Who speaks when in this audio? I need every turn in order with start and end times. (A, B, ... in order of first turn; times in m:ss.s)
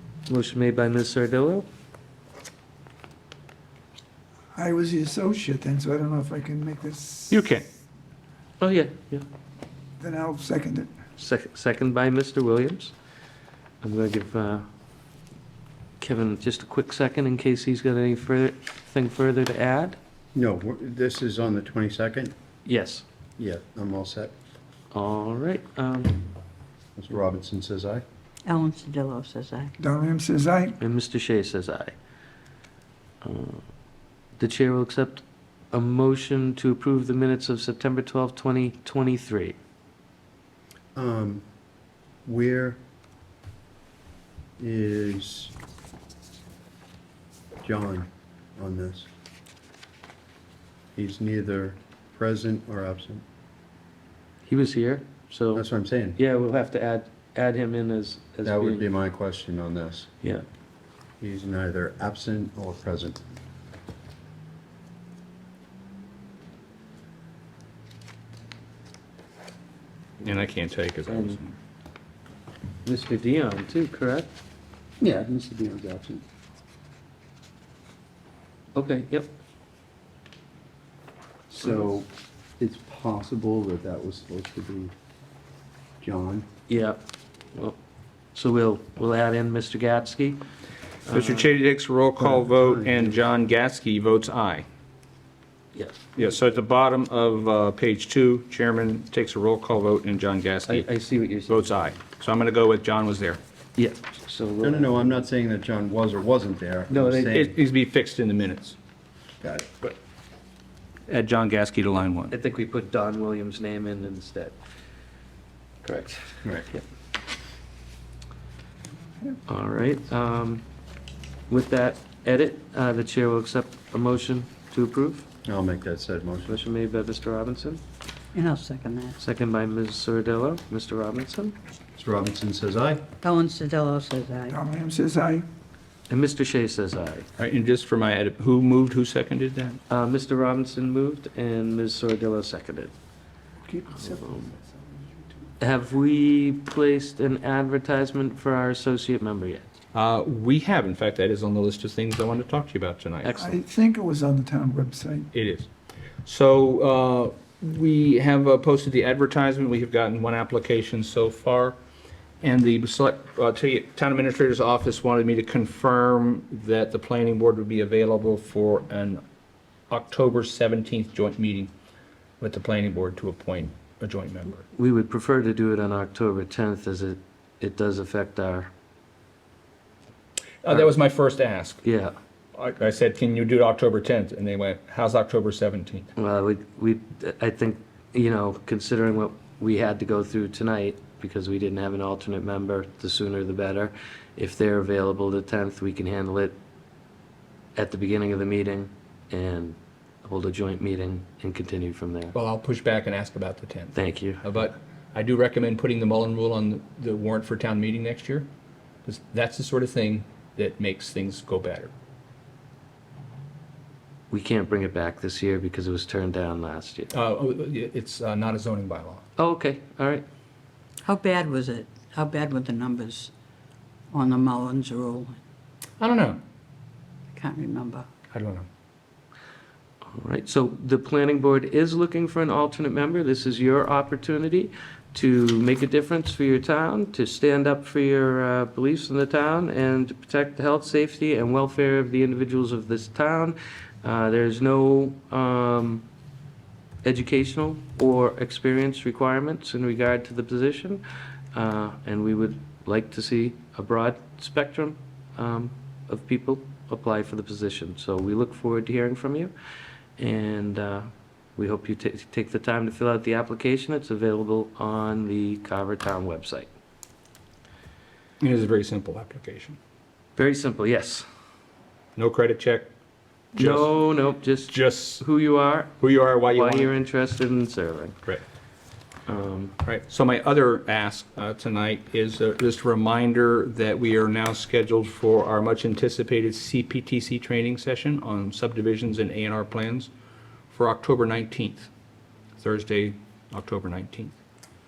0:00.3-0:01.7 A
0:04.5-0:07.4 B
0:07.3-0:07.6 C
0:08.6-0:09.3 A
0:10.0-0:10.9 B
0:11.2-0:12.9 A
0:13.8-0:14.7 A
0:16.0-0:20.0 A
0:20.4-0:22.4 D
0:22.6-0:23.0 A
0:23.4-0:24.3 D
0:24.9-0:26.3 A
0:27.0-0:28.0 D
0:28.5-0:29.7 E
0:29.8-0:30.8 B
0:30.8-0:32.0 A
0:33.2-0:33.7 A
0:34.4-0:39.6 A
0:41.0-0:41.4 D
0:42.2-0:42.8 D
0:44.6-0:45.5 D
0:47.6-0:49.1 D
0:51.0-0:53.2 D
0:54.5-0:55.7 A
0:55.5-0:56.2 D
0:56.2-0:58.9 A
0:58.4-1:00.1 D
1:01.2-1:03.2 D
1:10.2-1:11.6 C
1:11.1-1:11.4 A
1:12.8-1:14.4 A
1:15.0-1:16.2 D
1:18.8-1:19.3 A
1:21.5-1:24.9 D
1:26.0-1:26.5 D
1:26.7-1:27.0 A
1:28.3-1:30.4 A
1:31.1-1:31.5 A
1:31.1-1:34.6 C
1:32.2-1:33.2 D
1:35.7-1:36.5 A
1:36.2-1:40.9 C
1:40.7-1:42.0 A
1:41.5-1:43.4 C
1:43.8-1:45.2 A
1:44.6-1:47.6 D
1:46.9-1:47.4 A
1:47.3-1:48.8 C
1:49.4-1:50.0 D
1:51.1-1:52.4 C
1:52.3-1:54.6 A
1:55.8-1:56.8 A
1:59.5-2:00.6 A
2:01.5-2:05.3 A
2:05.4-2:06.6 D
2:06.5-2:07.8 A
2:08.3-2:09.2 E
2:09.2-2:11.6 A
2:12.0-2:13.0 D
2:13.2-2:14.6 E
2:14.5-2:15.5 B
2:16.1-2:17.3 A
2:17.4-2:19.8 C
2:19.9-2:22.9 A
2:23.6-2:25.4 B
2:24.2-2:24.5 A
2:25.6-2:29.6 A
2:29.9-2:33.4 C
2:33.2-2:33.6 A
2:33.4-2:35.3 B
2:35.3-2:35.7 C
2:36.2-2:41.8 C
2:42.4-2:49.2 C
2:49.9-2:51.7 C
2:52.4-2:54.6 C
2:54.7-2:58.7 A
3:00.6-3:01.8 C
3:01.8-3:02.2 A
3:02.6-3:06.1 C
3:06.2-3:16.6 A
3:17.8-3:22.4 A
3:22.4-3:28.5 C
3:23.9-3:24.5 A
3:29.0-3:31.9 C
3:34.3-3:37.1 A
3:37.1-3:39.2 C
3:39.4-3:40.3 A
3:41.1-3:43.3 E
3:44.1-3:45.4 E
3:46.0-3:46.4 C
3:47.3-3:48.1 E
3:48.3-3:48.7 C
3:50.1-4:06.1 A
4:07.0-4:19.5 A
4:20.2-4:26.7 A
4:28.4-4:29.8 C
4:30.4-4:31.3 A
4:32.2-4:32.9 C
4:33.6-4:34.0 C
4:33.6-4:38.2 A
4:34.7-4:35.2 C
4:36.0-4:36.9 C
4:39.3-4:39.8 A
4:39.8-4:50.1 C
4:50.7-4:51.9 C
4:52.6-4:54.3 C